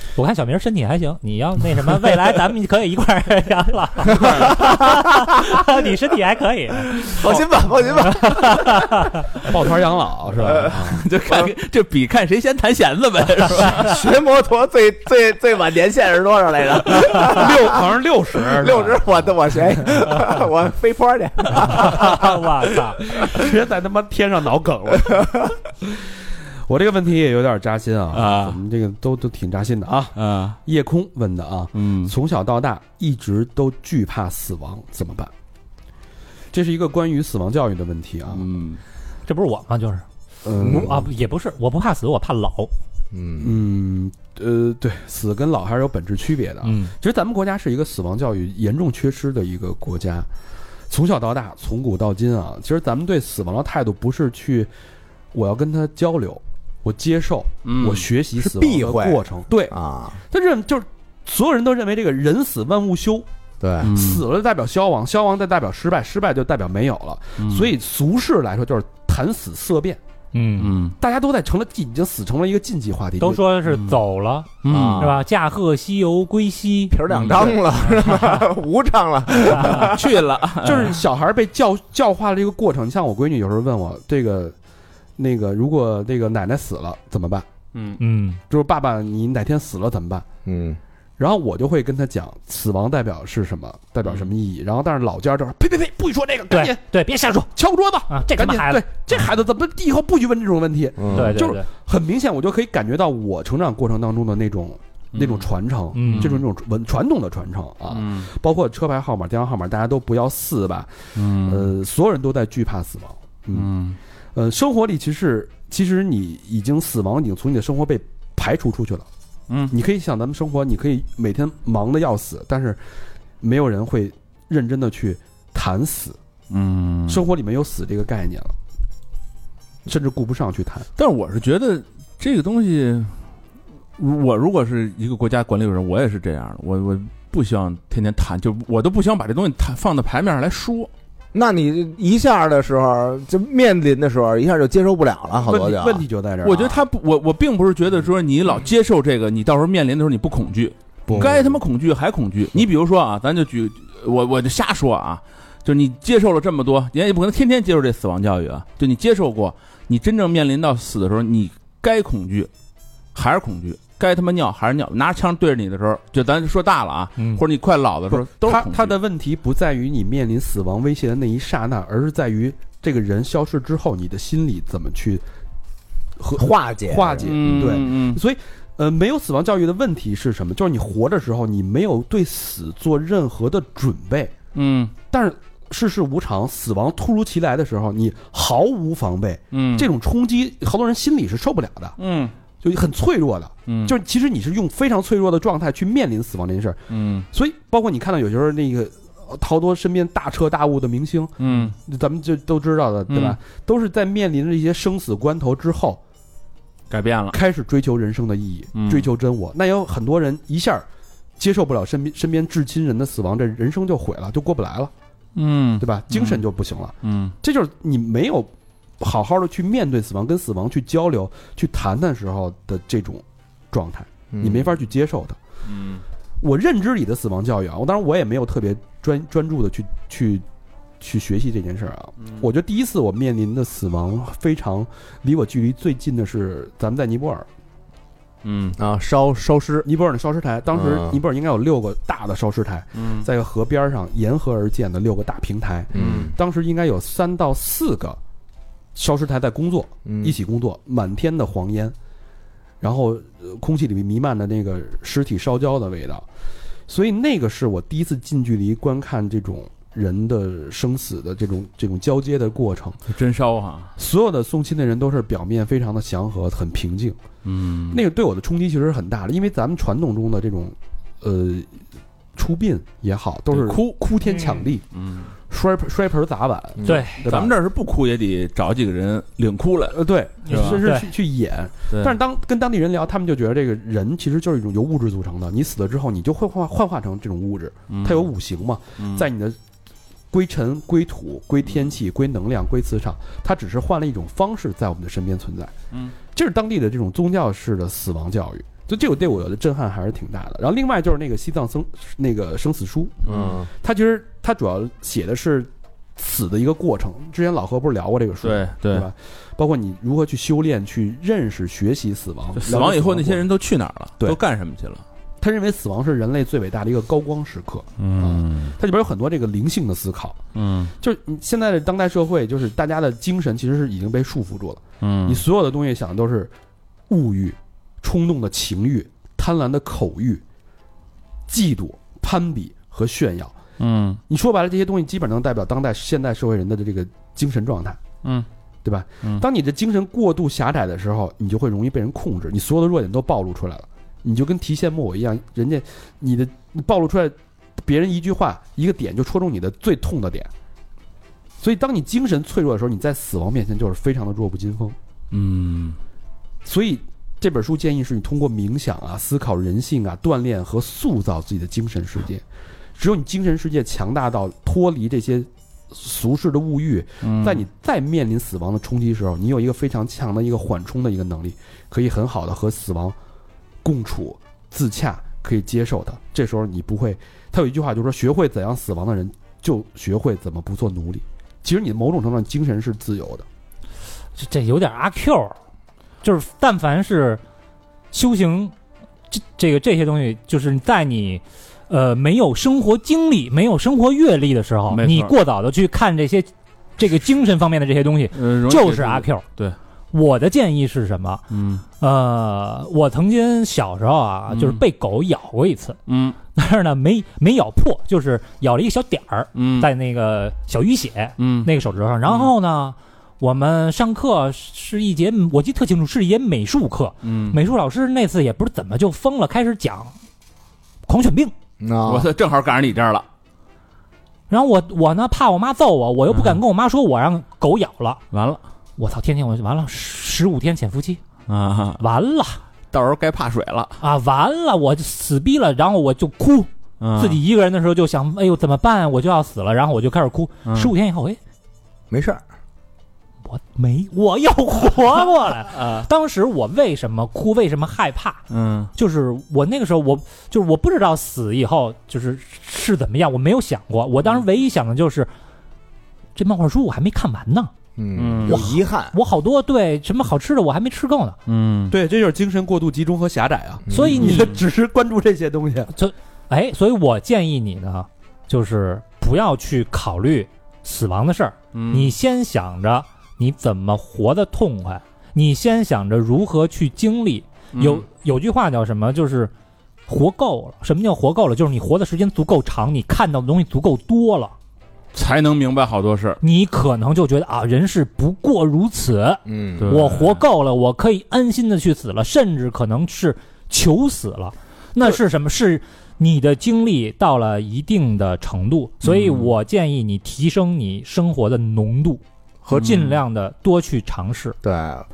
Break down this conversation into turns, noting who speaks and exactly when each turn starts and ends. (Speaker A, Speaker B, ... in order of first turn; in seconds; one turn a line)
Speaker A: 0.2-7.2
Speaker B: 4.1-5.6
Speaker B: 7.0-8.8
Speaker A: 8.0-9.3
Speaker C: 9.4-11.0
Speaker B: 10.4-11.5
Speaker D: 10.4-14.0
Speaker B: 13.6-17.8
Speaker C: 17.1-19.3
Speaker B: 18.4-22.2
Speaker A: 21.7-23.0
Speaker C: 23.1-26.1
Speaker C: 26.7-35.3
Speaker D: 28.1-28.6
Speaker D: 30.2-30.6
Speaker D: 31.7-32.1
Speaker C: 36.5-38.5
Speaker D: 38.3-38.8
Speaker A: 39.3-40.0
Speaker C: 40.4-41.1
Speaker B: 40.6-41.0
Speaker A: 40.6-42.7
Speaker B: 43.1-43.6
Speaker C: 43.4-50.3
Speaker A: 46.6-46.9
Speaker C: 50.9-54.7
Speaker C: 55.3-63.3
Speaker D: 57.6-58.1
Speaker B: 58.4-60.2
Speaker B: 63.6-64.0
Speaker D: 63.8-64.2
Speaker C: 63.8-70.0
Speaker D: 67.4-67.7
Speaker A: 70.3-70.7
Speaker D: 70.6-71.0
Speaker C: 71.0-73.4
Speaker A: 73.2-77.0
Speaker D: 73.7-74.0
Speaker D: 74.6-75.1
Speaker B: 74.7-75.2
Speaker B: 76.9-80.2
Speaker D: 77.1-78.2
Speaker D: 79.4-81.0
Speaker A: 79.5-79.9
Speaker C: 80.6-84.5
Speaker C: 85.2-87.5
Speaker D: 87.7-88.0
Speaker A: 88.0-88.4
Speaker C: 88.5-90.3
Speaker B: 90.5-90.8
Speaker C: 91.2-96.8
Speaker A: 96.5-97.5
Speaker C: 97.5-113.7
Speaker A: 98.1-98.8
Speaker B: 101.0-101.4
Speaker A: 101.1-101.7
Speaker D: 105.1-105.5
Speaker A: 105.9-106.4
Speaker D: 106.1-106.4
Speaker D: 107.9-108.3
Speaker D: 111.2-111.7
Speaker D: 113.5-114.0
Speaker C: 114.3-119.1
Speaker C: 119.7-122.8
Speaker C: 123.4-126.2
Speaker D: 126.5-127.3
Speaker C: 127.1-128.6
Speaker C: 129.9-130.9
Speaker D: 131.0-133.1
Speaker D: 134.0-140.9
Speaker B: 141.3-146.0
Speaker C: 145.4-146.8
Speaker D: 146.4-162.5
Speaker C: 151.1-151.5
Speaker B: 151.1-151.5
Speaker D: 163.2-168.9
Speaker A: 167.2-167.4
Speaker C: 168.1-175.2
Speaker C: 176.2-184.3
Speaker B: 176.3-177.8
Speaker D: 177.2-178.2
Speaker D: 184.6-184.9
Speaker C: 185.1-192.0
Speaker D: 189.5-189.9
Speaker D: 192.0-192.3
Speaker C: 192.6-196.8
Speaker D: 193.7-193.9
Speaker D: 196.9-197.3
Speaker C: 197.3-206.0
Speaker D: 201.4-201.8
Speaker D: 203.1-203.4
Speaker D: 206.9-207.4
Speaker C: 207.3-210.9
Speaker D: 208.8-209.1
Speaker C: 211.4-214.9
Speaker D: 215.3-216.4
Speaker C: 215.8-225.4
Speaker D: 217.0-217.3
Speaker B: 224.3-224.7
Speaker D: 225.7-226.0
Speaker C: 226.4-230.4
Speaker C: 231.0-237.5
Speaker D: 238.4-238.8
Speaker B: 238.8-239.9
Speaker C: 239.8-248.2
Speaker B: 240.7-241.2
Speaker D: 242.9-243.3
Speaker B: 245.9-246.3
Speaker D: 245.9-246.3
Speaker C: 248.9-251.9
Speaker B: 250.1-250.4
Speaker C: 252.8-256.2
Speaker C: 256.9-263.0
Speaker D: 263.1-263.9
Speaker C: 264.0-267.2
Speaker D: 267.4-268.0
Speaker C: 267.9-271.7
Speaker C: 272.4-274.8
Speaker D: 273.5-275.3
Speaker C: 275.5-277.5
Speaker A: 276.9-277.2
Speaker D: 277.2-280.8
Speaker C: 279.9-289.6
Speaker A: 280.5-281.1
Speaker D: 281.9-282.2
Speaker D: 287.9-288.3
Speaker D: 289.0-289.3
Speaker C: 290.3-295.7
Speaker C: 296.3-303.2
Speaker D: 303.2-303.6
Speaker B: 303.3-303.7
Speaker C: 303.7-313.5
Speaker D: 308.4-309.1
Speaker D: 312.6-315.0
Speaker C: 315.4-320.4
Speaker D: 318.0-318.8
Speaker D: 320.6-320.9
Speaker C: 321.0-326.5
Speaker D: 325.0-325.4
Speaker C: 327.1-330.4
Speaker C: 331.5-333.6
Speaker D: 333.8-334.2
Speaker C: 334.3-338.0
Speaker C: 338.8-350.5
Speaker C: 351.6-355.0
Speaker D: 355.3-356.0
Speaker C: 356.6-362.4
Speaker C: 363.0-373.2
Speaker D: 367.2-367.6
Speaker C: 373.8-383.4
Speaker A: 384.4-385.6
Speaker A: 386.2-387.4
Speaker A: 388.1-388.7
Speaker A: 389.3-399.4
Speaker D: 394.9-395.3
Speaker D: 398.3-399.8
Speaker A: 400.1-401.4
Speaker D: 401.5-401.8
Speaker A: 402.0-406.0
Speaker D: 404.5-404.8
Speaker D: 406.1-406.4
Speaker A: 406.6-420.1
Speaker D: 409.6-409.9
Speaker D: 411.4-411.7
Speaker D: 412.3-412.5
Speaker D: 417.2-417.6
Speaker A: 421.1-421.5
Speaker B: 421.8-422.3
Speaker D: 422.1-423.3
Speaker A: 424.5-428.2
Speaker D: 426.3-426.6
Speaker D: 428.3-428.6
Speaker A: 429.0-431.2
Speaker D: 431.5-432.0
Speaker A: 432.0-432.6
Speaker D: 432.9-434.0
Speaker A: 434.0-441.4
Speaker D: 437.0-437.4
Speaker D: 440.7-440.9
Speaker B: 442.1-442.4
Speaker A: 443.5-448.4
Speaker D: 445.7-446.1
Speaker D: 448.5-448.9
Speaker A: 448.9-455.3
Speaker A: 456.4-457.7
Speaker B: 458.0-459.2
Speaker D: 458.2-458.6
Speaker A: 458.5-461.4
Speaker D: 461.5-462.0
Speaker C: 461.9-465.9
Speaker B: 463.9-464.3
Speaker A: 463.9-464.6
Speaker D: 464.0-464.6
Speaker A: 465.9-479.5
Speaker D: 471.7-472.1
Speaker D: 477.8-478.1
Speaker A: 480.1-484.5
Speaker D: 485.1-486.4
Speaker A: 486.4-504.6
Speaker B: 489.5-489.9
Speaker D: 489.8-490.4
Speaker D: 499.1-499.5
Speaker B: 502.6-502.9
Speaker D: 502.7-503.2
Speaker B: 504.6-505.1